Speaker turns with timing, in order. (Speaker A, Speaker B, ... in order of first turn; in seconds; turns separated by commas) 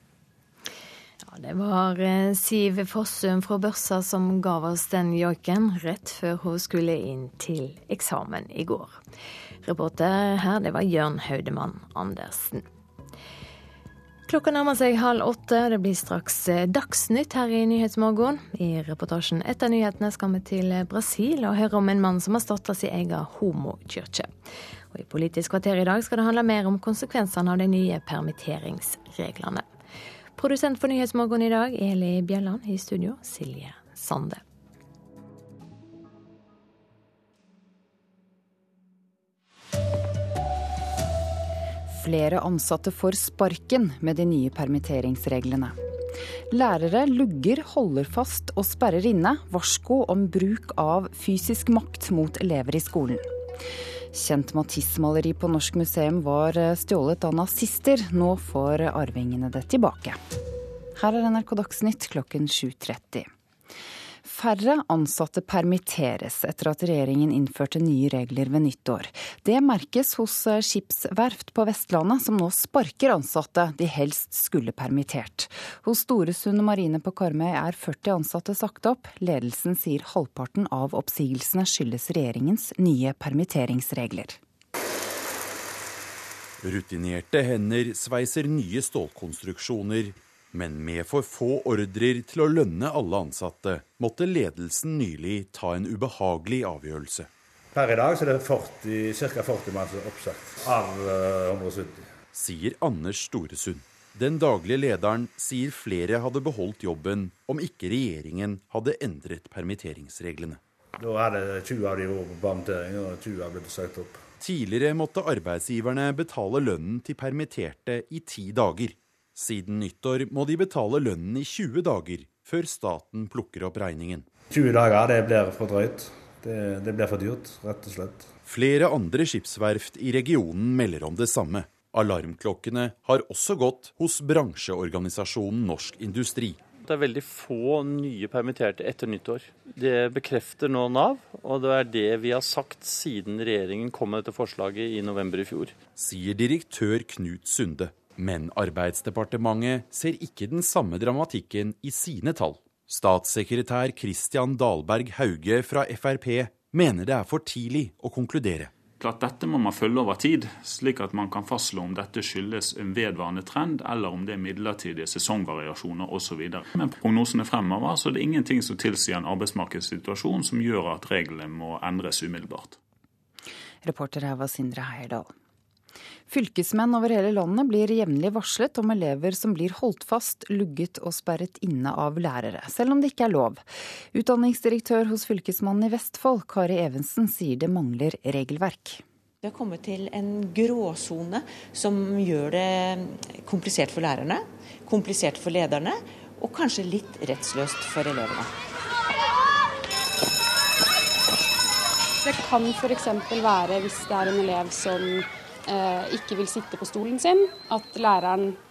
Speaker A: 1.2-9.0, Speaker A: 9.6-12.6, Speaker A: 14.3-24.3, Speaker A: 24.9-29.6, Speaker A: 30.4-34.4, Speaker B: 41.9-45.8, Speaker B: 46.5-53.2, Speaker B: 54.1-60.2, Speaker B: 61.0-63.3, Speaker B: 64.2-84.4, Speaker C: 86.6-97.3, Speaker D: 97.7-102.1, Speaker C: 102.3-110.6, Speaker D: 111.0-114.2, Speaker C: 114.4-124.3, Speaker D: 124.5-128.3, Speaker C: 128.4-136.6, Speaker E: 136.8-145.8, Speaker C: 145.9-158.7, Speaker F: 159.0-172.8, Speaker B: 173.8-175.3, Speaker B: 176.3-189.0, Speaker G: 189.4-198.5, Speaker H: 202.9-205.0, Speaker H: 206.5-207.0